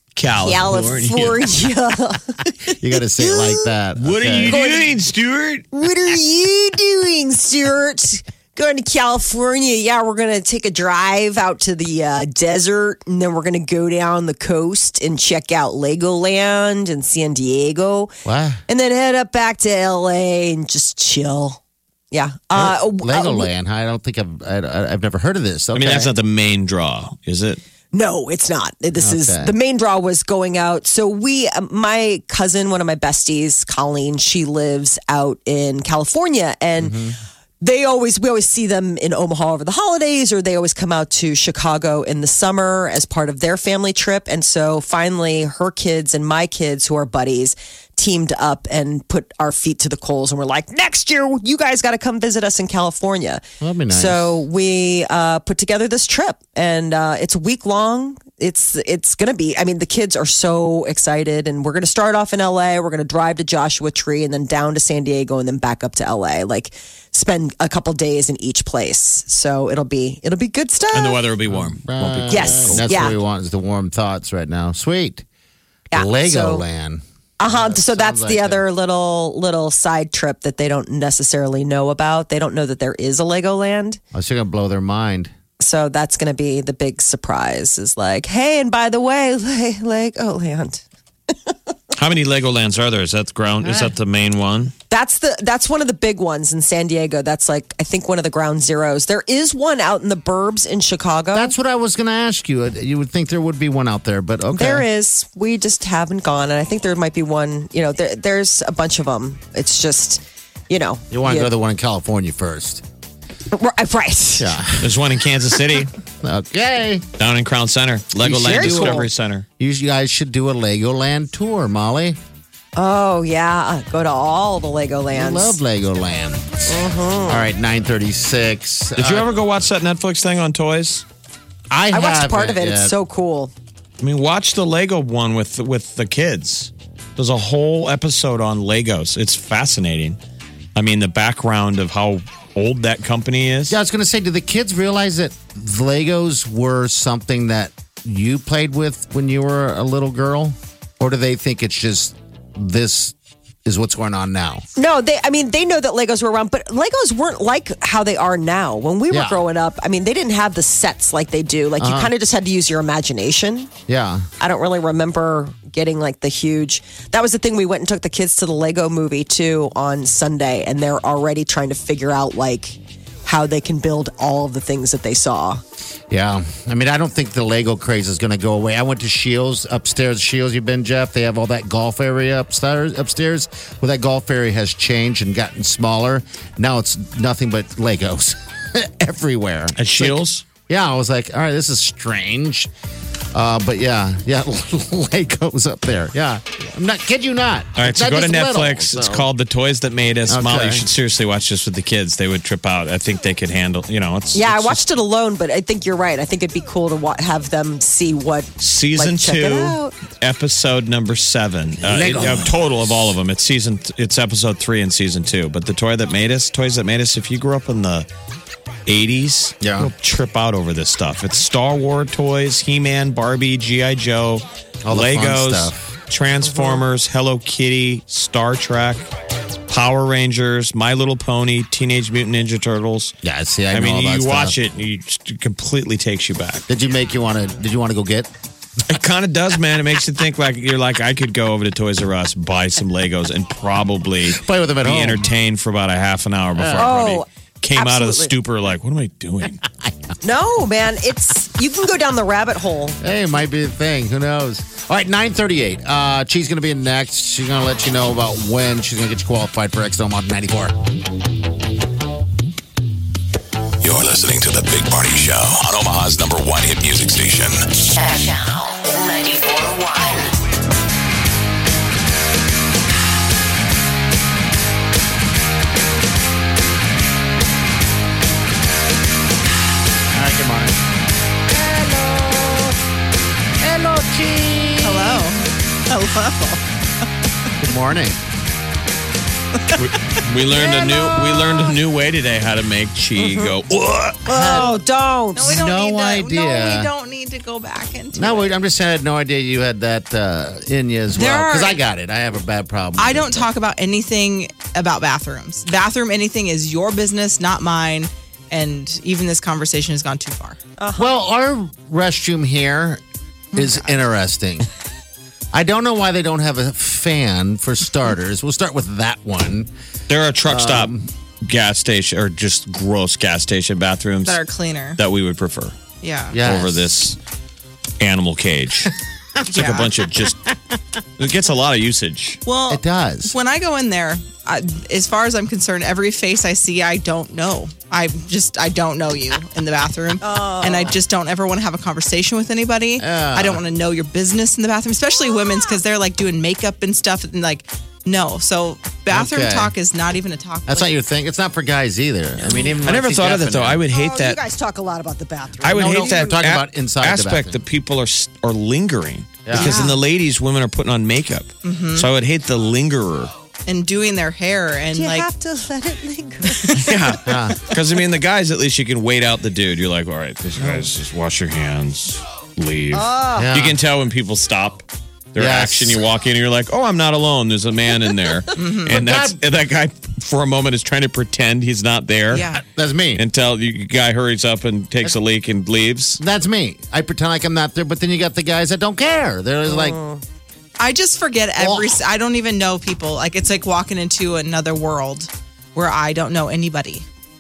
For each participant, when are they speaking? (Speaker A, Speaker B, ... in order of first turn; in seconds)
Speaker A: 0.1-1.5, 4.0-5.7, 25.7-27.6, 70.9-73.2, 92.0-94.7, 114.8-115.9, 117.2-119.5, 129.0-131.1, 134.0-140.2, 140.8-143.8, 189.8-190.4, 197.8-204.8, 208.6-218.1, 218.9-229.1, 229.7-233.1, 233.7-236.7, 238.9-249.6, 289.8-294.2, 320.1-324.4, 325.0-325.8, 326.4-327.2, 328.0-328.9, 329.4-330.5, 331.2-332.4, 352.4-354.4, 355.6-363.3, 366.8-382.5, 383.1-386.2
Speaker B: 0.4-3.7, 4.4-5.0, 5.7-18.1, 18.7-21.6, 22.1-23.5, 27.9-37.0, 37.6-71.2, 72.3-73.2, 75.9-76.7, 77.4-84.0, 85.6-91.5, 94.9-101.5, 104.5-111.5, 113.5-114.6, 118.2-119.1, 122.8-125.6, 126.7-127.5, 131.9-133.5, 154.8-163.7, 164.4-175.6, 204.3-209.9, 246.7-248.3, 250.2-253.0, 293.2-293.5, 294.3-295.5, 310.8-311.1, 340.2-341.0, 353.9-356.4, 364.9-367.0, 372.9-373.5, 389.7-390.2
Speaker C: 2.7-4.6, 18.2-18.6, 22.6-26.1, 29.0-29.6, 36.8-37.2, 53.6-54.4, 71.5-75.2, 75.9-78.7, 84.1-85.3, 93.6-94.0, 101.3-104.9, 111.1-112.8, 114.4-115.0, 116.2-117.1, 118.2-122.2, 125.1-129.3, 131.7-132.9, 143.7-154.6, 159.1-159.4, 161.8-162.1, 163.9-164.3, 176.1-192.7, 193.3-199.3, 200.3-200.9, 211.8-212.7, 219.6-219.9, 224.8-225.8, 233.2-234.6, 236.7-238.3, 244.3-245.3, 246.6-246.9, 253.0-260.7, 280.1-280.8, 281.5-282.8, 283.6-285.2, 287.6-288.2, 294.3-294.8, 295.4-296.9, 298.1-303.4, 311.0-313.0, 313.5-314.7, 315.5-319.7, 320.4-321.1, 326.3-326.9, 332.7-333.4, 343.0-343.6, 349.1-349.8, 350.7-353.8, 355.7-357.6, 359.5-359.8, 367.2-367.6, 373.4-373.8, 375.4-376.1, 378.9-379.4, 382.6-383.2, 386.2-390.0, 391.6-392.0
Speaker D: 263.8-267.6
Speaker E: 268.0-270.3
Speaker F: 284.8-287.1, 289.6-289.9, 290.4-291.7, 295.4-298.6, 301.1-301.8, 303.0-310.6, 313.5-314.0, 324.2-325.0, 326.0-326.4, 329.5-329.9, 332.5-351.0, 359.5-360.0, 361.6-362.1, 363.7-365.3, 366.6-367.0, 378.6-379.0, 382.3-382.6, 390.8-397.1